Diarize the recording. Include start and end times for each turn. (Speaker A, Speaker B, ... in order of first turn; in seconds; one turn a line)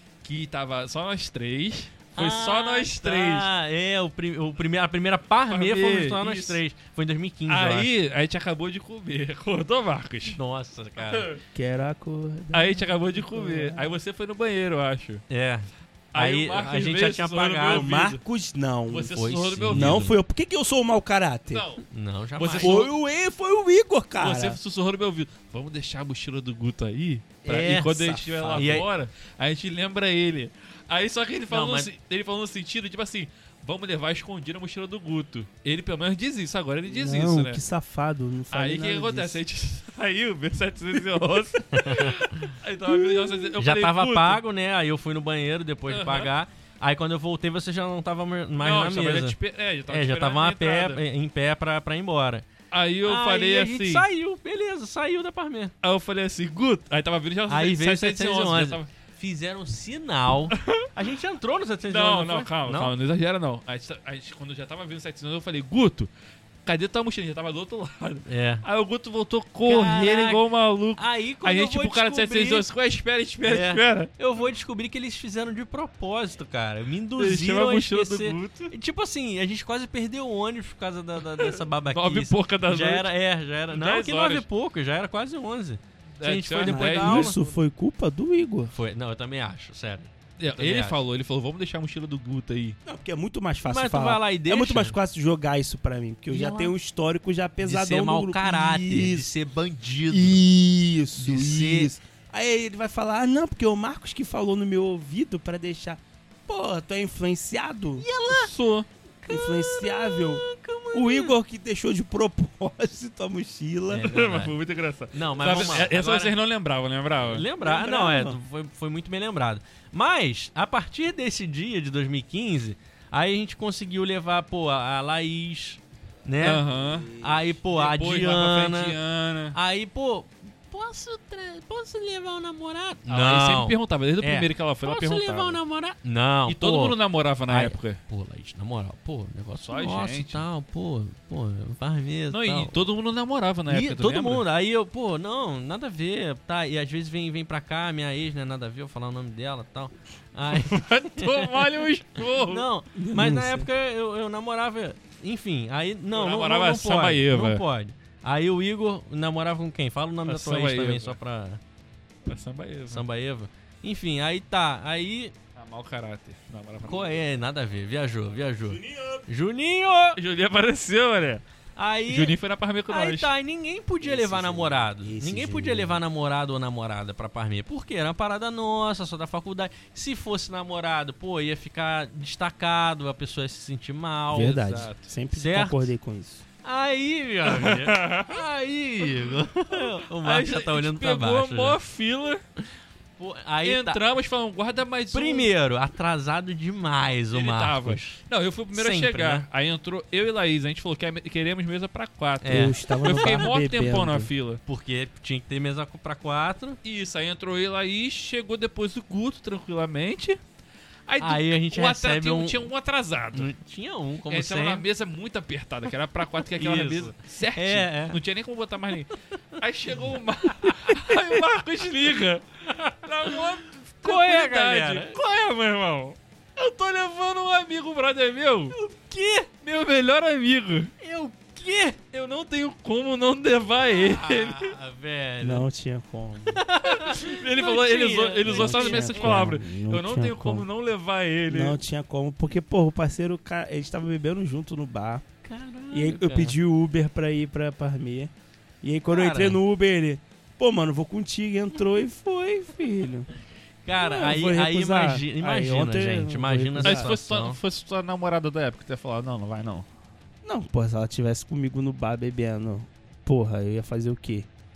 Speaker A: 0.2-3.5
Speaker B: 2.1-7.9
Speaker A: 5.5-6.6
Speaker A: 7.5-10.4
Speaker B: 10.3-11.3
Speaker A: 11.0-11.4
Speaker C: 11.5-13.9
Speaker A: 12.5-15.2
Speaker B: 15.3-18.0
Speaker A: 16.1-18.2
Speaker C: 17.6-19.1
Speaker A: 18.9-20.1
Speaker B: 19.1-20.2
Speaker C: 19.7-21.6
Speaker A: 21.5-21.8
Speaker B: 21.9-22.8
Speaker A: 22.4-22.9
Speaker C: 22.6-24.6
Speaker A: 24.2-37.6
Speaker C: 27.4-28.9
Speaker B: 27.5-27.9
Speaker B: 28.5-28.9
Speaker B: 31.5-31.9
Speaker C: 36.9-39.4
Speaker A: 38.5-44.4
Speaker B: 41.8-42.2
Speaker C: 42.9-43.5
Speaker B: 43.6-52.5
Speaker A: 45.9-46.3
Speaker A: 48.6-51.0
Speaker A: 52.7-54.1
Speaker B: 53.0-55.7
Speaker A: 55.8-58.9
Speaker B: 57.5-62.9
Speaker A: 60.5-60.9
Speaker A: 61.9-66.1
Speaker A: 66.7-74.1
Speaker B: 68.3-68.7
Speaker B: 69.7-72.7
Speaker B: 73.5-87.4
Speaker A: 77.2-78.7
Speaker A: 81.4-83.1
Speaker A: 83.7-84.5
Speaker A: 86.2-87.4
Speaker C: 86.7-88.7
Speaker B: 88.7-91.0
Speaker A: 90.4-92.8
Speaker C: 92.9-99.3
Speaker B: 93.6-95.0
Speaker B: 96.3-96.7
Speaker B: 97.6-100.4
Speaker C: 100.1-108.0
Speaker B: 101.2-101.9
Speaker B: 108.0-108.5
Speaker A: 108.3-108.9
Speaker B: 109.2-111.3
Speaker C: 109.3-114.1
Speaker B: 113.9-114.6
Speaker A: 114.0-117.5
Speaker B: 115.1-116.3
Speaker B: 117.2-126.7
Speaker C: 117.6-118.4
Speaker A: 126.4-129.6
Speaker C: 126.7-127.6
Speaker B: 127.2-129.0
Speaker B: 129.5-142.8
Speaker A: 133.1-135.6
Speaker A: 136.5-138.0
Speaker A: 139.6-140.4
Speaker A: 142.3-144.5
Speaker B: 143.7-151.7
Speaker A: 150.5-152.6
Speaker B: 152.4-161.6
Speaker C: 153.0-153.7
Speaker A: 156.1-157.6
Speaker A: 160.3-161.2
Speaker A: 162.3-163.0
Speaker B: 162.9-165.3
Speaker A: 165.6-167.2
Speaker B: 166.8-170.2
Speaker C: 168.7-169.2
Speaker A: 170.2-171.4
Speaker B: 171.8-184.6
Speaker A: 172.1-173.3
Speaker C: 174.0-176.0
Speaker C: 184.3-186.4
Speaker A: 184.3-185.1
Speaker B: 185.3-185.9
Speaker B: 186.6-191.8
Speaker A: 187.5-188.4
Speaker A: 189.2-192.4
Speaker B: 193.2-194.0
Speaker A: 193.6-195.5
Speaker B: 195.1-198.2
Speaker A: 197.3-204.6
Speaker B: 198.7-199.5
Speaker B: 202.4-203.4
Speaker C: 202.5-204.3
Speaker B: 204.7-206.8
Speaker A: 206.8-210.4
Speaker A: 211.1-213.5
Speaker B: 211.2-212.7
Speaker B: 213.3-214.8
Speaker A: 214.3-228.8
Speaker B: 216.4-218.2
Speaker B: 220.9-221.4
Speaker B: 224.0-225.2
Speaker B: 228.7-229.5
Speaker A: 229.6-230.9
Speaker B: 231.0-232.0
Speaker A: 232.1-234.8
Speaker B: 233.9-235.7
Speaker C: 235.4-236.6
Speaker B: 236.5-239.6
Speaker A: 236.8-241.8
Speaker C: 238.4-240.7
Speaker C: 241.5-245.2
Speaker B: 245.4-246.6
Speaker C: 245.9-248.3
Speaker C: 248.8-253.3
Speaker B: 249.1-249.6
Speaker B: 253.8-257.6
Speaker C: 254.0-257.1
Speaker A: 256.8-259.9
Speaker C: 260.4-264.5